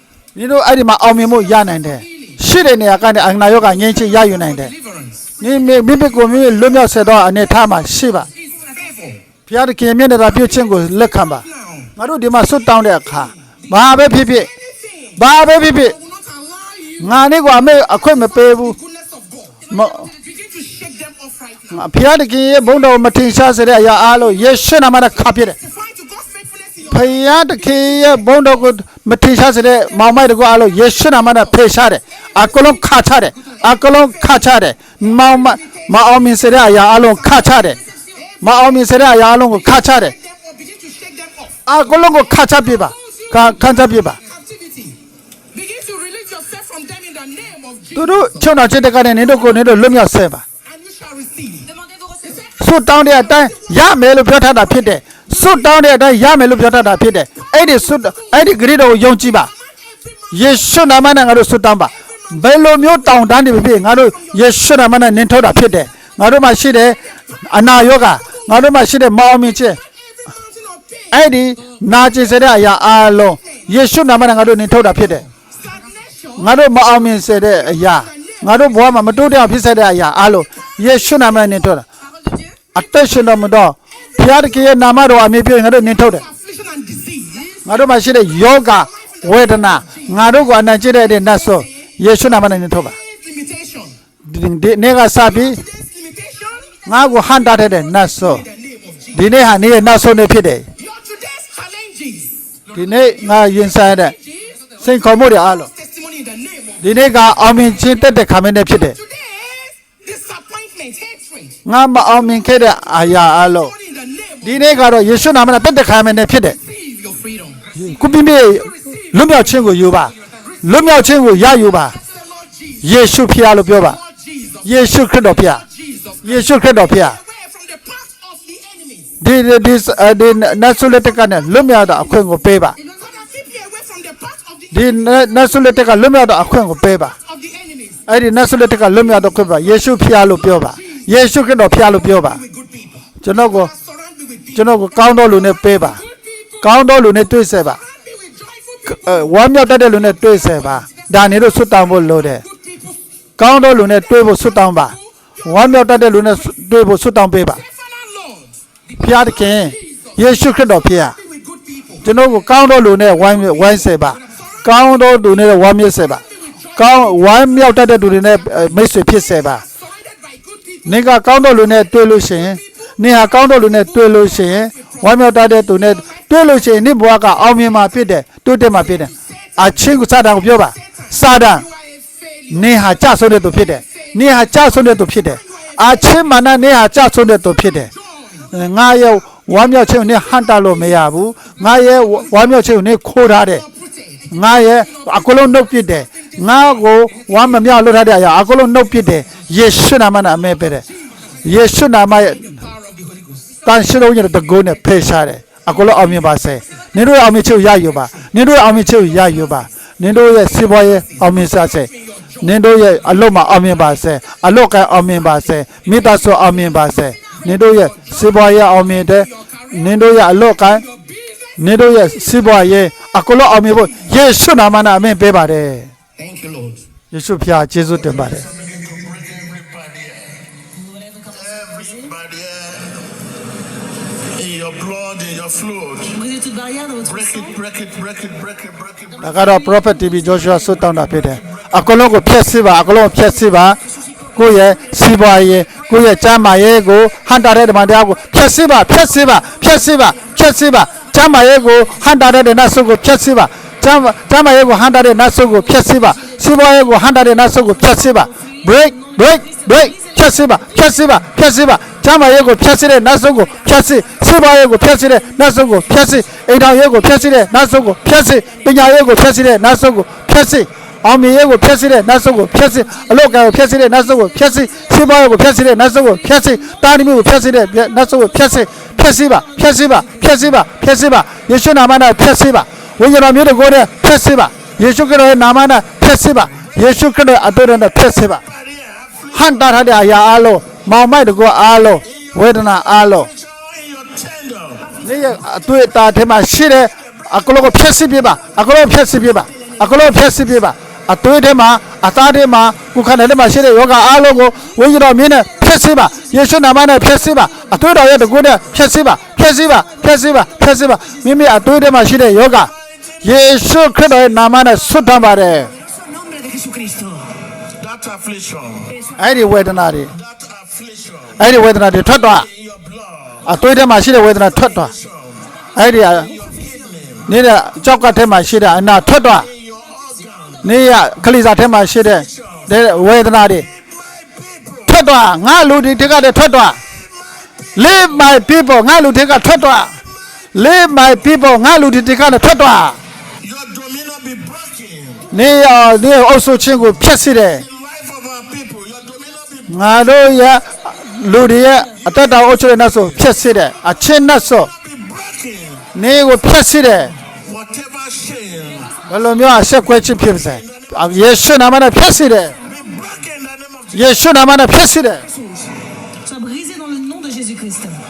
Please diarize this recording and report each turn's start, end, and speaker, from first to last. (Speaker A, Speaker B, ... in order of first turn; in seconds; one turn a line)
Speaker A: 0.4-4.7
Speaker B: 1.7-2.4
Speaker B: 4.1-5.4
Speaker A: 5.4-8.3
Speaker B: 8.3-9.3
Speaker A: 9.5-11.4
Speaker B: 11.3-11.9
Speaker A: 12.0-14.5
Speaker B: 14.5-17.2
Speaker A: 15.2-16.0
Speaker A: 17.0-18.8
Speaker B: 18.6-21.9
Speaker A: 19.7-20.1
Speaker A: 21.7-25.6
Speaker B: 25.5-27.6
Speaker A: 26.9-37.8
Speaker B: 35.4-35.9
Speaker B: 37.7-38.5
Speaker A: 38.4-40.1
Speaker B: 40.0-41.7
Speaker A: 41.7-44.2
Speaker B: 42.9-45.0
Speaker B: 45.5-48.5
Speaker A: 48.0-50.4
Speaker B: 50.6-52.5
Speaker C: 51.7-52.4
Speaker A: 52.6-59.5
Speaker A: 60.3-69.8
Speaker B: 70.1-71.8
Speaker A: 71.1-75.3
Speaker B: 75.6-76.5
Speaker A: 76.4-81.8
Speaker B: 77.7-78.7
Speaker A: 82.7-86.2
Speaker B: 86.1-87.9
Speaker A: 87.7-93.0
Speaker B: 89.2-90.3
Speaker B: 91.0-91.9
Speaker B: 92.9-94.0
Speaker A: 94.2-95.6
Speaker B: 95.2-96.9
Speaker A: 96.9-98.5
Speaker B: 97.5-99.3
Speaker A: 99.1-100.7
Speaker B: 100.8-103.1
Speaker A: 102.7-104.1
Speaker B: 103.9-104.9
Speaker A: 104.8-105.7
Speaker B: 105.4-107.0
Speaker A: 106.8-109.0
Speaker B: 108.9-111.6
Speaker A: 111.7-113.7
Speaker B: 113.6-114.7
Speaker A: 114.4-116.6
Speaker B: 116.6-117.7
Speaker A: 117.8-122.0
Speaker B: 118.5-119.3
Speaker B: 120.0-120.6
Speaker B: 122.1-122.9
Speaker A: 122.8-124.0
Speaker B: 123.8-129.2
Speaker A: 124.6-125.6
Speaker A: 126.2-127.2
Speaker A: 129.2-132.8
Speaker B: 132.8-134.9
Speaker A: 134.7-137.2
Speaker B: 137.3-138.1
Speaker A: 138.1-142.4
Speaker B: 142.1-143.1
Speaker A: 143.2-143.7
Speaker B: 143.6-144.7
Speaker A: 144.6-146.0
Speaker A: 146.6-147.8
Speaker B: 147.8-149.3
Speaker A: 148.9-152.4
Speaker B: 152.4-153.0
Speaker A: 153.4-157.6
Speaker B: 157.6-162.1
Speaker A: 159.0-161.2
Speaker A: 162.0-166.2
Speaker B: 163.9-164.2
Speaker A: 166.8-169.6
Speaker B: 169.8-170.9
Speaker A: 170.9-181.7
Speaker B: 174.6-175.0
Speaker B: 181.1-182.9
Speaker A: 182.5-187.9
Speaker B: 185.5-186.1
Speaker B: 188.2-188.5
Speaker A: 188.5-193.7
Speaker B: 191.8-192.1
Speaker B: 193.6-195.4
Speaker A: 194.3-200.8
Speaker B: 196.2-196.6
Speaker B: 201.2-201.4
Speaker A: 201.4-202.5
Speaker B: 202.4-203.7
Speaker A: 203.7-211.9
Speaker B: 212.0-212.5
Speaker A: 212.4-220.8
Speaker B: 217.7-218.1
Speaker B: 219.1-219.9
Speaker B: 220.7-221.7
Speaker A: 221.6-225.9
Speaker B: 226.2-226.8
Speaker A: 227.1-228.5
Speaker D: 228.0-230.4
Speaker C: 230.8-232.1
Speaker D: 231.3-233.0
Speaker D: 234.2-236.2
Speaker C: 236.1-237.6
Speaker D: 237.0-239.6
Speaker A: 239.2-243.8
Speaker A: 244.3-288.4
Speaker C: 258.3-260.6
Speaker C: 279.7-280.2
Speaker D: 288.5-290.0
Speaker A: 289.3-293.3
Speaker D: 292.1-292.4
Speaker D: 293.3-295.0
Speaker A: 295.0-312.7
Speaker A: 313.2-315.7
Speaker C: 315.7-317.4
Speaker D: 317.7-319.0
Speaker A: 319.2-320.1
Speaker D: 320.1-321.5
Speaker A: 321.4-322.5
Speaker D: 322.3-323.6
Speaker A: 323.4-324.9
Speaker D: 324.8-325.5
Speaker A: 325.8-326.3
Speaker D: 326.1-327.3
Speaker A: 327.3-329.5
Speaker D: 329.3-330.7
Speaker A: 330.6-333.7
Speaker D: 332.1-332.8
Speaker D: 333.7-335.0
Speaker A: 334.9-336.8
Speaker A: 337.8-339.9
Speaker A: 340.5-343.0
Speaker D: 343.4-345.3
Speaker A: 345.3-347.7
Speaker D: 347.6-349.7
Speaker A: 349.7-354.7
Speaker D: 354.8-355.9
Speaker A: 355.9-357.1
Speaker D: 357.4-359.0
Speaker A: 359.1-362.6
Speaker D: 360.3-361.4
Speaker D: 362.5-364.4
Speaker A: 363.9-365.3
Speaker C: 366.2-368.0